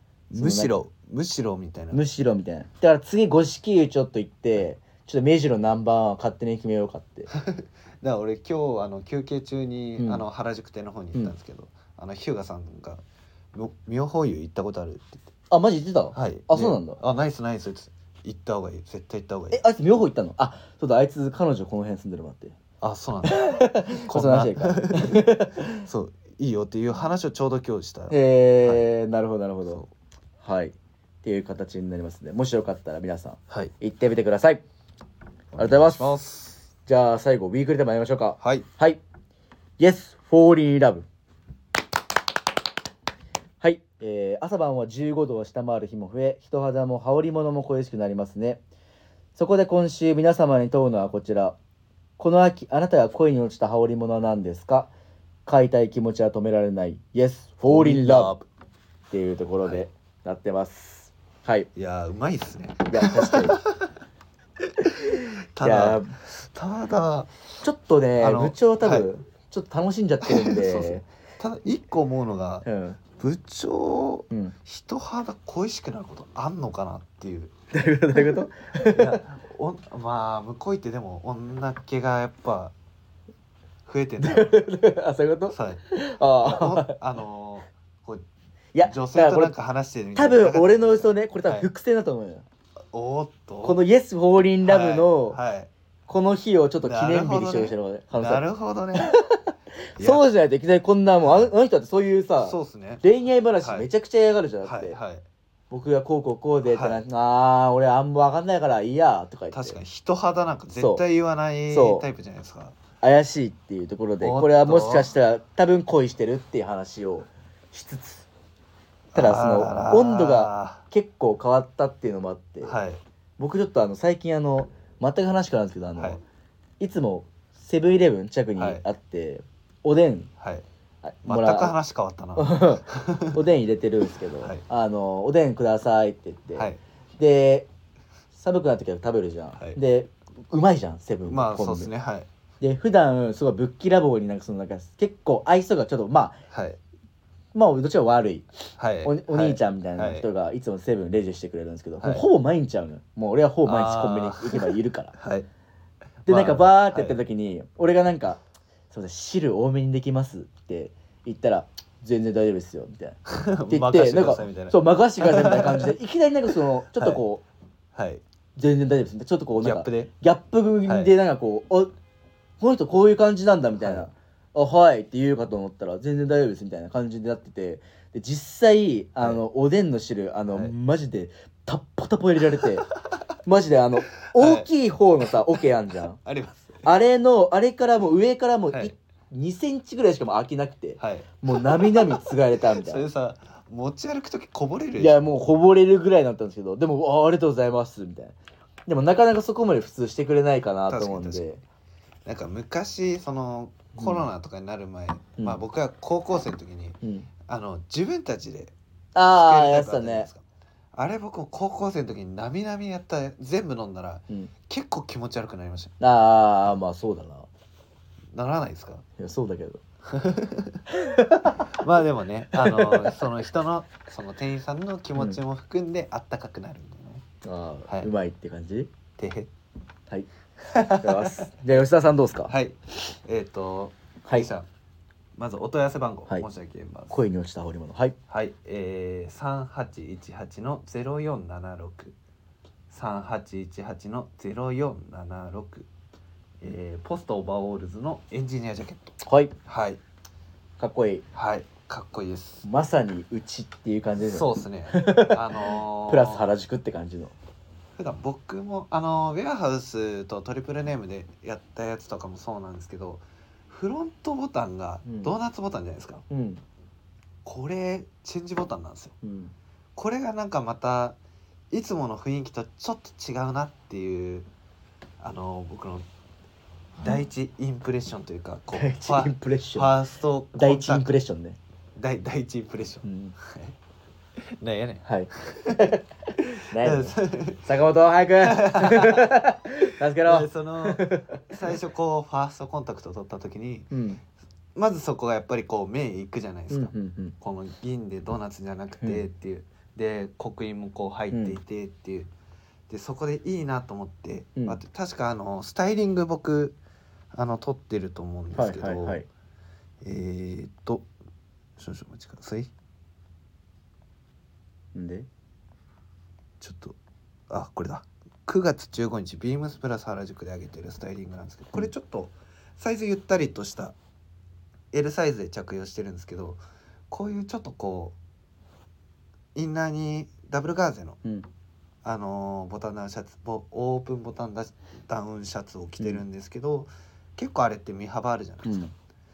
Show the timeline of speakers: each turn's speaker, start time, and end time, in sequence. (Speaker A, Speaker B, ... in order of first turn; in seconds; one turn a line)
Speaker A: 0.3-2.0
Speaker B: 0.3-0.7
Speaker B: 1.9-7.3
Speaker A: 7.3-13.0
Speaker B: 10.0-10.3
Speaker A: 13.5-15.3
Speaker B: 15.5-17.0
Speaker A: 16.1-19.6
Speaker B: 19.5-22.6
Speaker A: 22.8-28.9
Speaker B: 23.3-25.9
Speaker B: 28.1-29.8
Speaker B: 30.4-34.6
Speaker A: 35.5-36.7
Speaker B: 35.6-36.2
Speaker B: 36.9-39.0
Speaker A: 38.4-38.7
Speaker B: 39.8-41.1
Speaker B: 43.6-48.6
Speaker B: 49.4-51.6
Speaker B: 52.2-54.9
Speaker B: 55.5-58.4
Speaker A: 57.7-58.5
Speaker B: 59.1-61.7
Speaker A: 61.8-63.9
Speaker B: 62.9-63.6
Speaker A: 64.6-64.9
Speaker B: 65.1-66.1
Speaker A: 65.5-67.3
Speaker B: 67.6-71.0
Speaker A: 68.2-69.1
Speaker A: 70.2-77.5
Speaker B: 72.7-73.0
Speaker B: 77.7-79.2
Speaker A: 78.2-82.7
Speaker A: 83.8-84.6
Speaker B: 84.2-87.0
Speaker A: 85.5-85.8
Speaker A: 86.4-88.2
Speaker B: 88.7-89.5
Speaker A: 88.8-91.7
Speaker B: 90.2-92.5
Speaker A: 92.9-93.8
Speaker B: 93.6-95.4
Speaker A: 94.6-95.7
Speaker B: 96.1-98.4
Speaker A: 96.8-99.2
Speaker B: 99.0-105.0
Speaker A: 100.0-100.2
Speaker A: 102.4-103.0
Speaker A: 103.6-103.9
Speaker A: 104.6-105.2
Speaker B: 105.7-109.8
Speaker A: 106.7-107.0
Speaker A: 109.5-112.8
Speaker B: 110.8-111.0
Speaker B: 111.7-112.1
Speaker B: 113.0-118.3
Speaker A: 114.2-115.1
Speaker A: 119.1-120.8
Speaker B: 119.2-122.8
Speaker A: 122.6-123.0
Speaker B: 123.4-126.2
Speaker A: 126.0-126.2
Speaker B: 126.8-130.3
Speaker A: 128.6-128.8
Speaker A: 130.4-130.7
Speaker B: 131.0-131.8
Speaker A: 131.2-133.4
Speaker B: 132.4-137.7
Speaker A: 136.6-136.8
Speaker B: 138.3-141.9
Speaker A: 141.3-142.3
Speaker B: 142.6-146.4
Speaker A: 146.5-146.8
Speaker B: 147.5-148.5
Speaker A: 148.8-150.3
Speaker B: 149.0-155.2
Speaker A: 153.6-155.5
Speaker A: 156.3-157.2
Speaker B: 156.3-158.4
Speaker B: 158.9-167.4
Speaker A: 163.3-165.9
Speaker A: 167.0-167.2
Speaker A: 167.9-168.2
Speaker B: 168.6-171.9
Speaker A: 169.6-170.1
Speaker A: 170.9-171.1
Speaker B: 172.6-182.9
Speaker A: 173.8-174.1
Speaker A: 182.6-183.2
Speaker B: 183.4-186.2
Speaker A: 184.3-184.7
Speaker A: 186.2-186.9
Speaker B: 186.8-193.1
Speaker A: 191.0-195.2
Speaker B: 195.0-198.4
Speaker B: 198.9-201.6
Speaker A: 200.9-201.4
Speaker A: 202.2-208.7
Speaker B: 204.0-204.3
Speaker B: 207.0-207.3
Speaker B: 209.2-210.3
Speaker A: 209.3-215.9
Speaker B: 216.0-217.5
Speaker A: 218.3-219.1
Speaker B: 219.2-219.8
Speaker A: 220.1-220.8
Speaker B: 220.9-221.7
Speaker A: 221.7-227.2
Speaker B: 222.5-223.2
Speaker B: 227.4-228.9
Speaker A: 229.2-229.5
Speaker A: 230.7-231.5
Speaker B: 230.9-232.5
Speaker A: 232.5-234.7
Speaker A: 235.4-237.2
Speaker B: 237.1-238.2
Speaker A: 238.3-242.2
Speaker A: 242.9-245.9
Speaker A: 246.6-250.0
Speaker B: 249.2-249.5
Speaker B: 250.8-251.2
Speaker A: 251.3-252.7
Speaker B: 252.6-257.3
Speaker A: 254.2-256.5
Speaker A: 258.0-266.2
Speaker B: 265.1-265.3
Speaker B: 266.3-266.6
Speaker A: 267.4-269.2
Speaker B: 269.2-269.5
Speaker A: 270.0-271.2
Speaker A: 271.7-274.5
Speaker A: 275.2-276.1
Speaker A: 277.0-281.1
Speaker B: 278.7-279.9
Speaker B: 280.6-281.6
Speaker A: 282.0-283.8
Speaker B: 283.0-283.4
Speaker A: 284.4-287.7
Speaker B: 285.1-291.6
Speaker A: 288.4-289.5
Speaker A: 290.2-293.9
Speaker B: 293.9-294.2
Speaker A: 294.8-302.3
Speaker B: 296.7-297.4
Speaker B: 301.3-301.6
Speaker A: 302.9-306.8
Speaker A: 307.3-309.2
Speaker B: 308.5-309.3
Speaker A: 310.0-311.1
Speaker A: 311.8-312.7
Speaker B: 314.9-315.3
Speaker A: 316.6-317.0
Speaker A: 317.5-324.0
Speaker A: 324.9-328.2
Speaker A: 329.5-331.2
Speaker A: 332.0-338.9
Speaker B: 338.6-338.9